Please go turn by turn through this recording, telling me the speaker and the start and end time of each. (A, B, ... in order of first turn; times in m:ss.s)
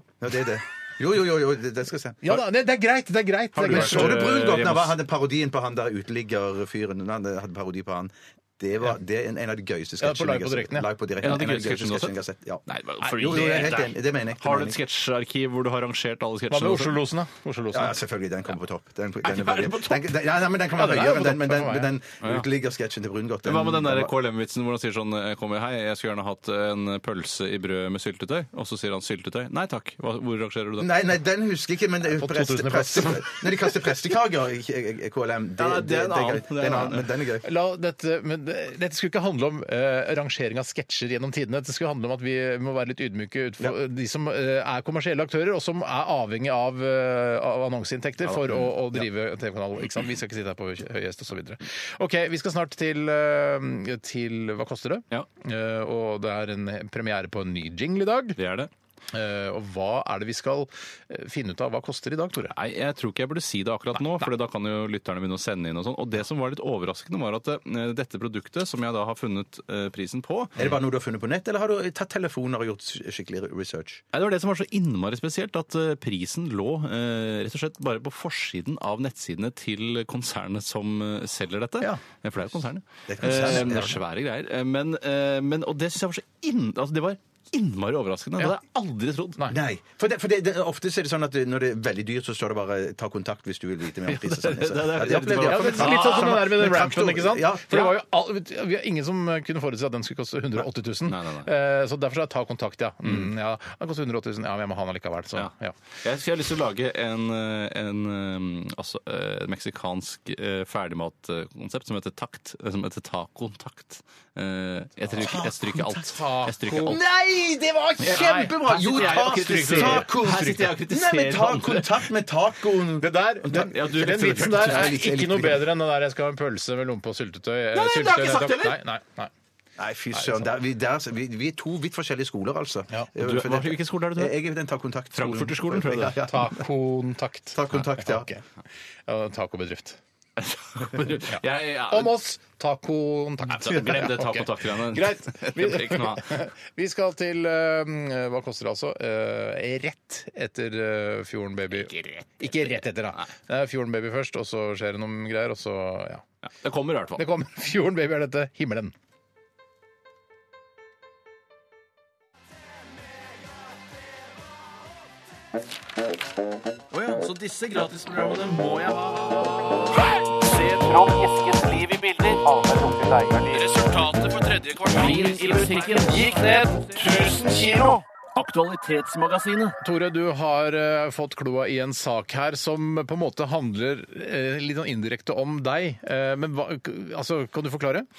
0:00.2-0:02.4 A
0:02.2-0:04.3 B
0:03.5-0:05.0 C
0:03.7-0:14.8 A
0:10.0-0:10.9 B
0:11.2-0:12.1 C
0:12.7-0:17.0 C
0:16.5-0:18.0 B
0:17.7-0:24.1 A
0:19.2-0:20.1 C
0:20.7-0:21.9 B
0:23.4-0:30.9 C
0:30.8-0:37.4 A
0:32.0-0:33.5 B
0:35.6-0:37.1 C
0:37.4-0:58.4 B
0:58.4-0:58.7 C
0:59.1-1:02.5 B
1:02.5-1:10.7 C
1:10.6-1:14.0 A
1:14.1-1:29.4 C
1:23.1-1:24.0 A
1:29.5-1:38.0 A
1:34.1-1:36.4 C
1:35.4-1:45.7 B
1:41.1-1:41.5 C
1:45.4-1:57.0 C
1:55.2-1:55.5 A
1:55.2-1:57.0 B
1:56.8-2:05.7 A
1:58.0-2:02.1 C
1:58.0-2:00.5 B
2:03.0-2:09.3 B
2:03.5-2:04.9 C
2:07.7-2:08.8 C
2:09.8-2:16.6 A
2:10.1-2:10.5 B
2:13.2-2:14.4 C
2:15.1-2:16.3 C
2:16.2-2:18.4 B
2:17.5-2:18.3 A
2:19.1-2:20.0 B
2:20.4-2:22.1 C
2:21.3-2:36.2 B
2:23.5-2:26.3 C
2:31.7-2:32.7 C
2:36.4-2:37.2 C
2:37.2-2:38.9 B
2:46.9-2:59.8 C
2:59.8-3:08.1 B